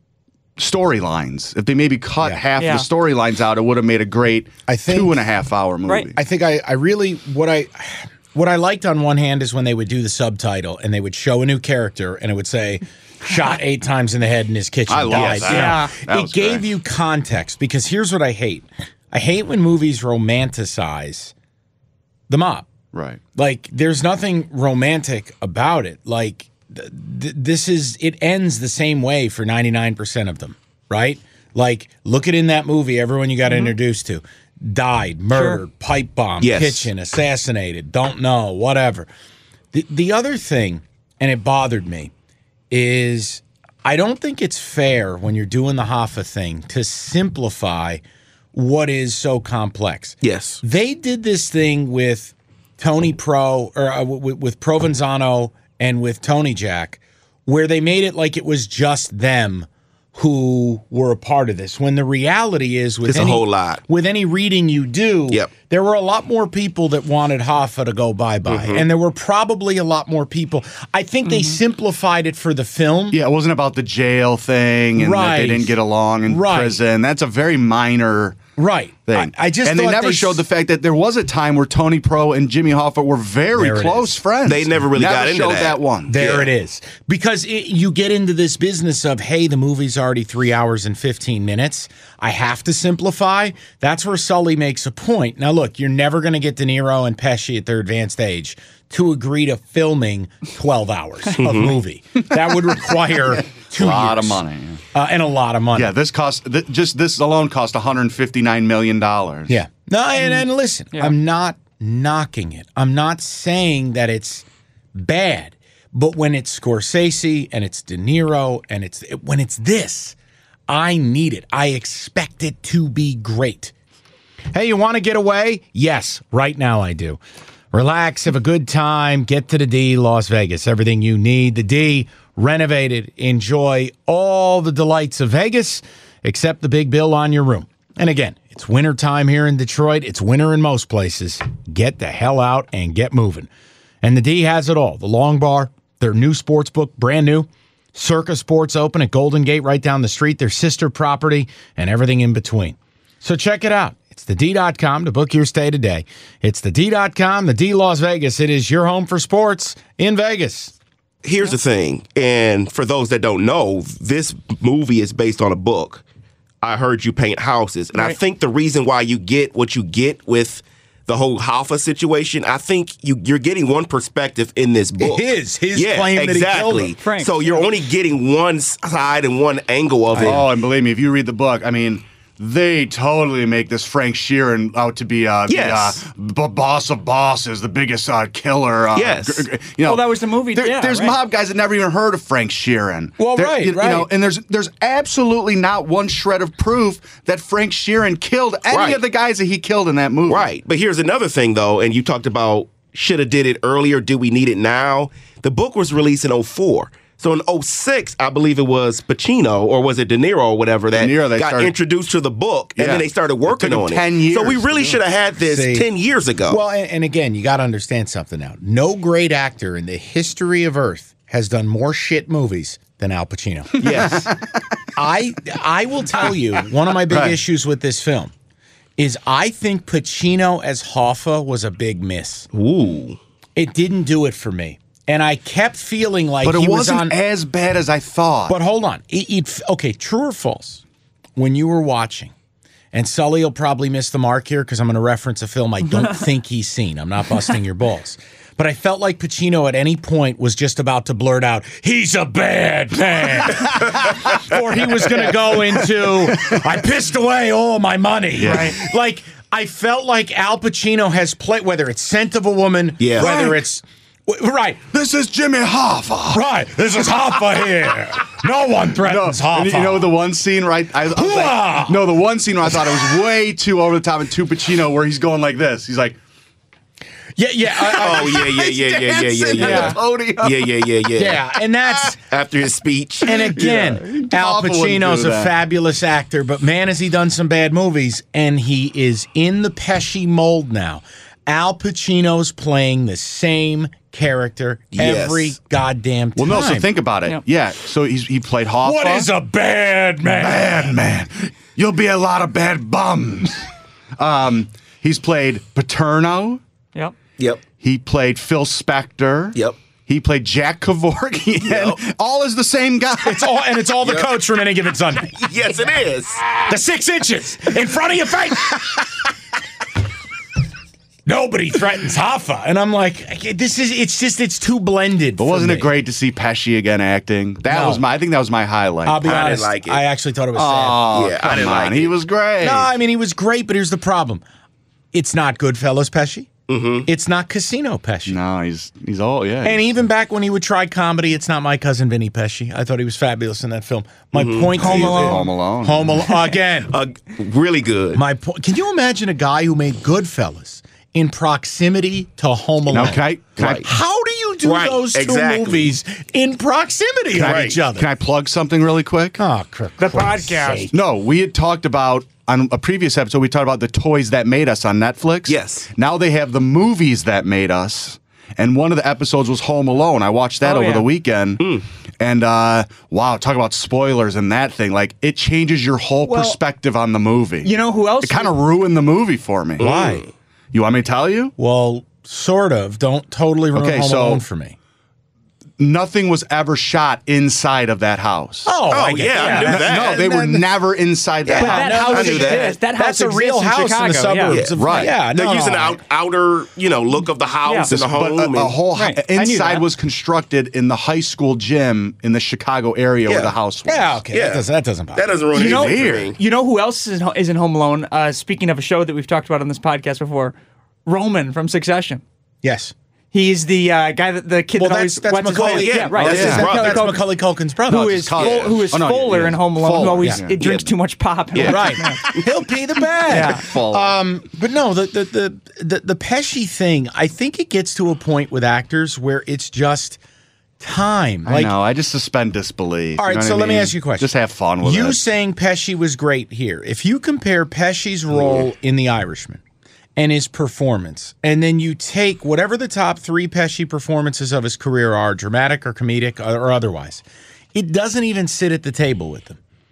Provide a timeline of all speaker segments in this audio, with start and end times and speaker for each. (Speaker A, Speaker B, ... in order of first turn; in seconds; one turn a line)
Speaker A: 0.6-6.2
Speaker B: 2.6-2.9
Speaker C: 4.7-5.2
Speaker C: 6.1-21.3
Speaker A: 14.9-16.6
Speaker D: 15.1-15.5
Speaker B: 15.5-15.9
Speaker C: 22.3-22.7
Speaker A: 22.9-23.2
Speaker C: 23.3-39.1
Speaker B: 33.5-33.7
Speaker B: 35.3-35.6
Speaker D: 36.4-36.9
Speaker C: 39.7-42.1
Speaker C: 42.7-48.0
Speaker C: 48.5-73.2
Speaker D: 50.2-50.6
Speaker D: 63.0-63.8
Speaker D: 68.5-68.8
Speaker B: 71.3-71.6
Speaker A: 73.1-78.4
Speaker C: 75.0-76.8
Speaker C: 78.6-80.4
Speaker A: 79.1-86.2
Speaker C: 83.5-84.2
Speaker D: 84.5-86.5
Speaker C: 86.1-104.4
Speaker D: 101.4-101.7
Speaker A: 103.7-104.8
Speaker C: 104.9-105.9
Speaker A: 105.7-109.5
Speaker C: 109.5-120.2
Speaker C: 120.7-123.7
Speaker C: 124.5-127.2
Speaker C: 127.7-143.5
Speaker C: 144.0-160.7
Speaker D: 161.2-166.0
Speaker D: 166.6-180.4
Speaker C: 175.0-176.9
Speaker B: 177.0-177.7
Speaker C: 180.1-180.4
Speaker A: 180.2-200.5
Speaker D: 185.5-186.0
Speaker D: 188.9-189.5
Speaker B: 189.8-191.2
Speaker C: 193.2-194.1
Speaker D: 198.7-199.0
Speaker D: 200.3-216.6
Speaker A: 210.9-211.7
Speaker A: 212.8-215.0
Speaker C: 215.4-215.9
Speaker C: 216.5-224.3
Speaker A: 223.8-224.4
Speaker D: 223.8-224.3
Speaker C: 224.9-228.3
Speaker A: 227.1-227.4
Speaker C: 229.0-232.5
Speaker D: 232.5-233.2
Speaker C: 233.6-237.1
Speaker A: 236.4-238.6
Speaker C: 238.5-240.8
Speaker C: 241.3-242.3
Speaker C: 242.9-264.9
Speaker A: 256.3-256.6
Speaker A: 258.4-258.8
Speaker B: 258.4-258.8
Speaker D: 263.0-263.3
Speaker A: 263.1-263.6
Speaker A: 264.9-266.4
Speaker C: 266.3-270.1
Speaker A: 269.0-276.2
Speaker C: 271.1-272.0
Speaker C: 272.6-273.1
Speaker C: 277.4-278.8
Speaker D: 277.9-281.4
Speaker A: 278.0-280.7
Speaker C: 279.5-280.0
Speaker C: 281.1-282.2
Speaker D: 282.1-283.4
Speaker C: 283.2-296.9
Speaker A: 283.3-285.5
Speaker D: 294.9-295.5
Speaker A: 296.4-299.3
Speaker C: 298.8-300.9
Speaker A: 300.3-303.6
Speaker A: 304.2-306.6
Speaker A: 307.8-313.5
Speaker D: 311.6-312.0
Speaker C: 313.2-315.5
Speaker D: 314.0-314.3
Speaker D: 315.4-316.5
Speaker C: 316.5-319.1
Speaker C: 321.2-325.9
Speaker A: 325.4-329.5
Speaker C: 327.7-328.0
Speaker C: 329.0-331.0
Speaker D: 329.2-330.0
Speaker A: 330.5-332.9
Speaker D: 331.1-332.1
Speaker C: 332.6-334.4
Speaker C: 335.1-336.5
Speaker D: 336.7-337.1
Speaker C: 337.0-338.4
Speaker A: 338.3-339.8
Speaker C: 339.6-346.9
Speaker D: 344.3-344.7
Speaker B: 344.7-345.4
Speaker A: 344.8-346.3
Speaker D: 346.9-348.2
Speaker C: 348.1-353.2
Speaker A: 352.9-353.9
Speaker D: 353.6-353.9
Speaker C: 353.8-358.1
Speaker D: 354.6-355.9
Speaker A: 357.3-359.4
Speaker D: 357.4-357.8
Speaker C: 359.4-360.9
Speaker B: 360.0-360.9
Speaker A: 360.9-379.9
Speaker D: 365.5-365.9
Speaker B: 370.6-371.1
Speaker B: 376.2-376.6
Speaker B: 377.6-378.6
Speaker C: 379.8-380.2
Speaker D: 379.8-380.3
Speaker A: 380.7-381.5
Speaker C: 381.6-384.8
Speaker A: 383.7-384.4
Speaker A: 385.8-388.7
Speaker C: 388.6-390.6
Speaker D: 388.9-390.3
Speaker B: 389.3-389.8
Speaker A: 389.6-392.1
Speaker D: 391.4-392.7
Speaker C: 391.5-396.0
Speaker B: 391.6-394.6
Speaker D: 394.5-398.7
Speaker A: 394.8-395.1
Speaker B: 397.6-397.9
Speaker A: 397.9-404.2
Speaker B: 398.9-399.9
Speaker D: 403.3-403.5
Speaker C: 403.9-405.3
Speaker D: 404.3-406.4
Speaker A: 405.5-406.3
Speaker B: 405.5-410.5
Speaker B: 411.1-412.2
Speaker C: 412.6-412.9
Speaker B: 413.3-417.2
Speaker C: 414.8-418.3
Speaker D: 415.5-417.2
Speaker A: 416.2-416.7
Speaker B: 417.9-422.2
Speaker A: 417.9-420.6
Speaker D: 418.4-418.7
Speaker D: 420.6-420.9
Speaker D: 421.5-422.4
Speaker C: 421.6-430.2
Speaker B: 423.3-423.6
Speaker A: 423.3-424.1
Speaker C: 430.8-431.7
Speaker A: 431.4-435.2
Speaker C: 433.2-434.3
Speaker C: 434.8-439.6
Speaker C: 440.1-449.6